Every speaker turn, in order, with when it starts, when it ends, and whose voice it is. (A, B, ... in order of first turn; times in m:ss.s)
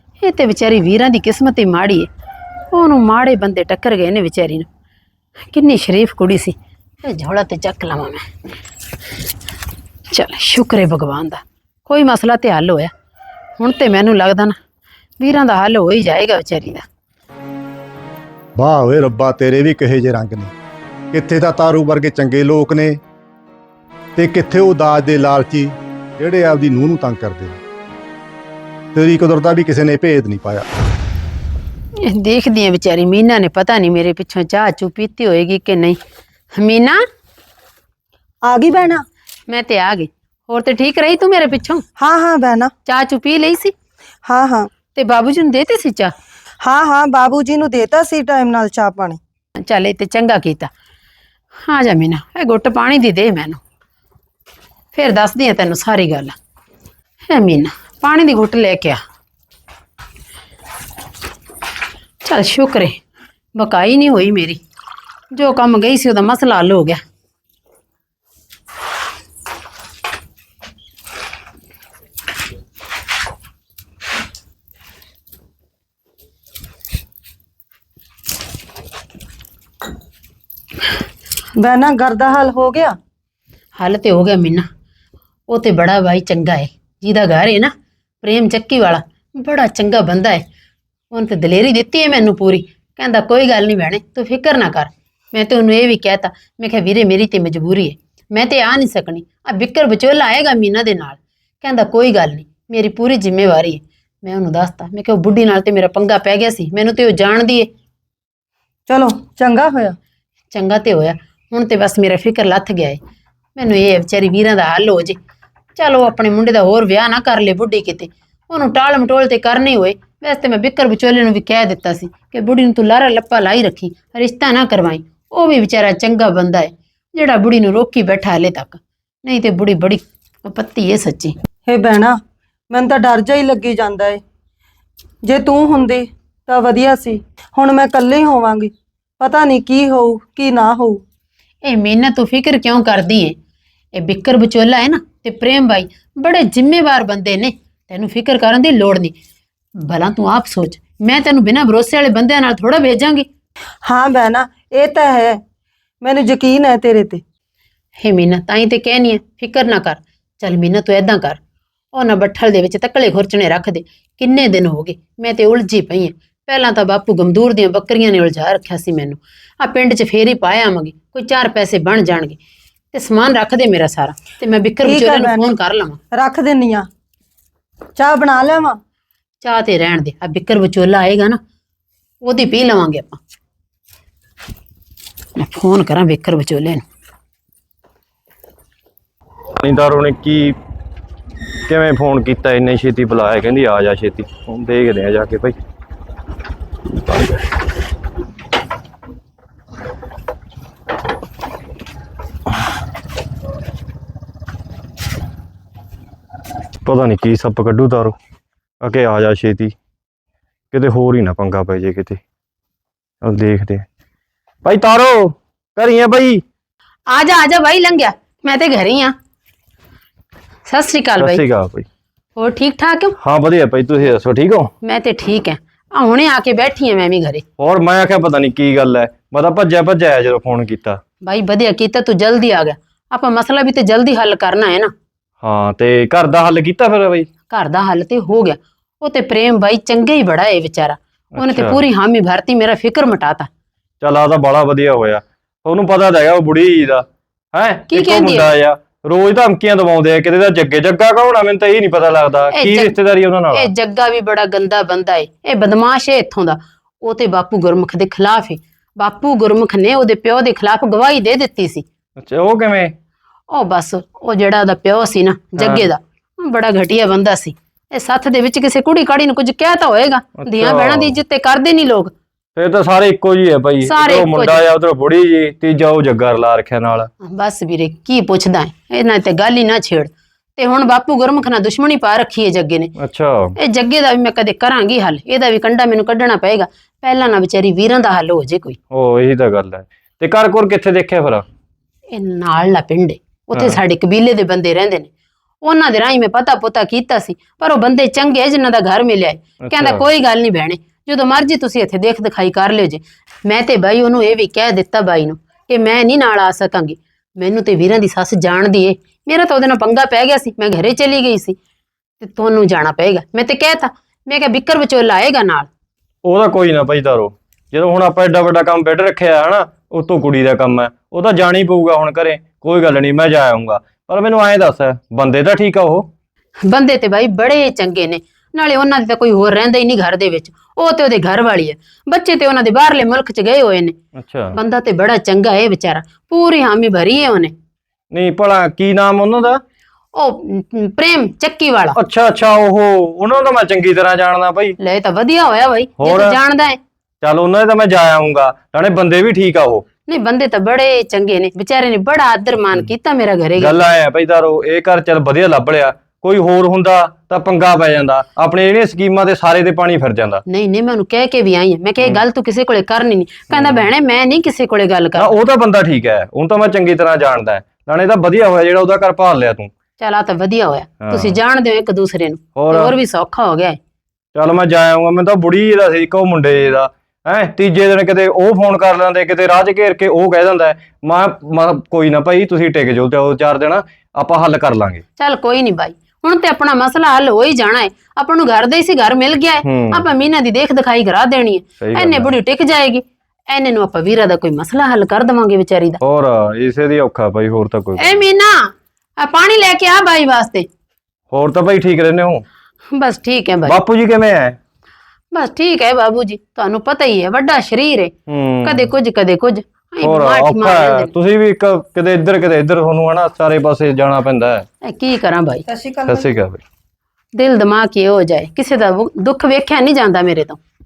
0:00.2-0:02.1 A
0:02.7-0:04.7 A
0:05.5-0:08.3 A
0:10.1-0:12.9 A
0:13.6-0:14.6 A
0:15.2-0:16.8 A
0:18.6-0:20.5 B
0:21.1-0:23.0 B
0:24.2-0:27.6 B
0:28.9-0:30.6 B
0:32.0-0:36.0 A
0:36.5-0:37.0 A
0:38.4-0:39.0 C
0:39.5-0:41.8 A
0:42.0-0:42.7 C
0:42.9-0:43.7 A
0:44.2-0:44.7 C
0:44.9-0:46.1 A
0:46.6-0:49.2 C
0:49.6-0:50.7 A
0:51.6-0:53.6 A
0:54.9-0:56.3 A
0:57.3-0:59.0 A
1:02.2-1:03.0 A
1:03.6-1:04.6 A
1:05.3-1:07.0 A
1:21.6-1:23.0 C
1:23.8-1:24.6 A
1:25.5-1:30.4 A
1:31.1-1:47.7 A
1:48.9-1:50.0 C
1:50.5-1:53.0 A
1:53.6-1:55.2 A
1:55.7-2:11.3 A
2:11.7-2:12.2 C
2:12.7-2:14.2 C
2:15.2-2:21.0 C
2:21.6-2:23.3 A
2:23.9-2:29.1 A
2:29.8-2:33.2 A
2:33.8-2:35.4 C
2:36.0-2:37.2 C
2:38.0-2:41.4 A
2:41.9-2:52.4 A
2:52.9-2:56.0 A
2:54.8-2:55.5 C
2:56.1-2:56.9 C
2:58.0-2:58.8 C
2:59.4-3:01.4 A
3:02.2-3:03.2 A
3:05.4-3:06.8 A
3:09.6-3:10.6 D
3:11.7-3:15.6 D
3:26.8-3:28.1 D
3:28.8-3:29.7 D
3:30.7-3:32.2 D
3:33.2-3:33.8 D
3:34.6-3:36.4 D
3:37.1-3:39.1 A
3:40.7-3:41.4 A
3:41.2-3:41.8 D
3:42.4-3:43.1 A
3:43.2-3:44.7 D
3:44.8-3:47.4 A
3:47.6-3:51.0 D
3:51.2-3:54.9 A
3:55.4-3:57.3 D
3:57.5-4:03.5 A
4:01.3-4:01.8 D
4:04.0-4:13.7 D
4:07.9-4:08.5 A
4:12.5-4:12.9 A
4:13.5-4:21.8 A
4:22.2-4:22.9 D
4:23.5-4:32.1 A
4:25.6-4:25.9 D
4:30.4-4:31.2 D
4:32.6-4:37.1 D
4:33.8-4:34.6 A
4:37.2-4:42.9 A
4:43.0-4:43.5 D
4:43.6-4:48.8 A
4:48.9-4:51.4 D
4:52.1-4:55.1 A
4:55.6-5:11.5 A
4:59.6-5:00.0 D
5:12.2-5:15.7 A
5:16.2-5:26.1 D
5:26.6-5:33.9 A
5:34.2-5:34.5 D
5:34.5-5:37.5 A
5:38.1-5:39.6 D
5:40.1-5:42.0 A
5:42.0-5:44.8 D
5:44.8-5:46.8 A
5:46.0-5:46.4 D
5:47.2-5:49.8 D
5:50.1-5:53.8 A
5:53.6-6:00.4 D
6:00.5-6:05.4 A
6:03.5-6:03.8 D
6:05.2-6:09.7 D
6:10.0-6:13.8 A
6:11.0-6:11.4 D
6:12.6-6:13.0 D
6:14.3-6:25.0 D
6:25.2-6:36.0 A
6:29.6-6:30.1 D
6:31.8-6:32.3 D
6:36.0-6:38.2 D
6:38.0-6:40.6 A
6:41.3-6:42.4 D
6:42.9-6:43.8 A
6:43.6-6:44.6 D
6:45.3-6:48.1 A
6:48.3-6:48.9 D
6:48.6-6:51.1 A
6:50.0-6:54.6 D
6:54.8-6:55.6 A
6:55.7-6:56.4 C
6:56.0-6:56.6 D
6:57.3-7:00.6 A